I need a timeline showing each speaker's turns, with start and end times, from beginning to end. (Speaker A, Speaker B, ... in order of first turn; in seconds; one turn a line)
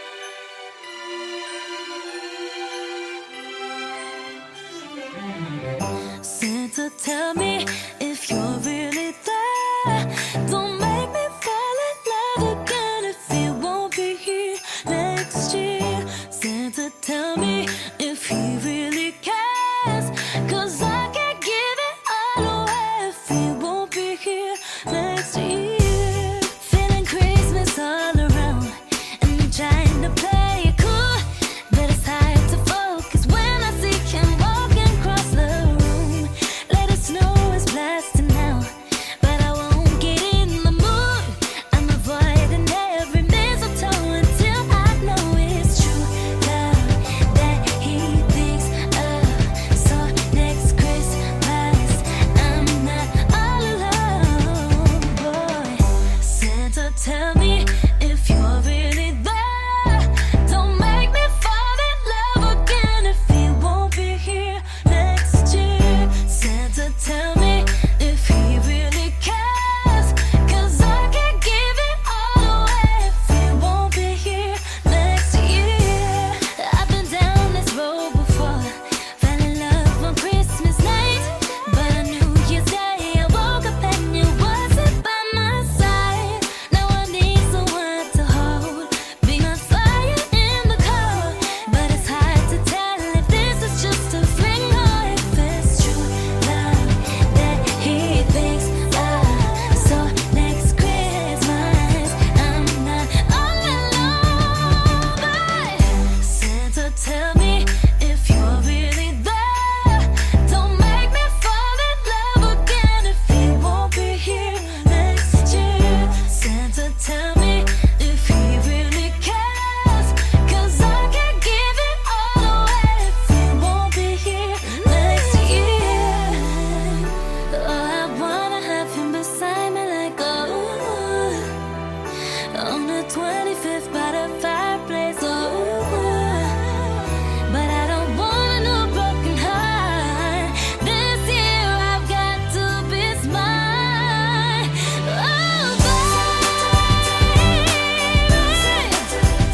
Speaker A: 6.2-131.6
Speaker A: 132.5-149.2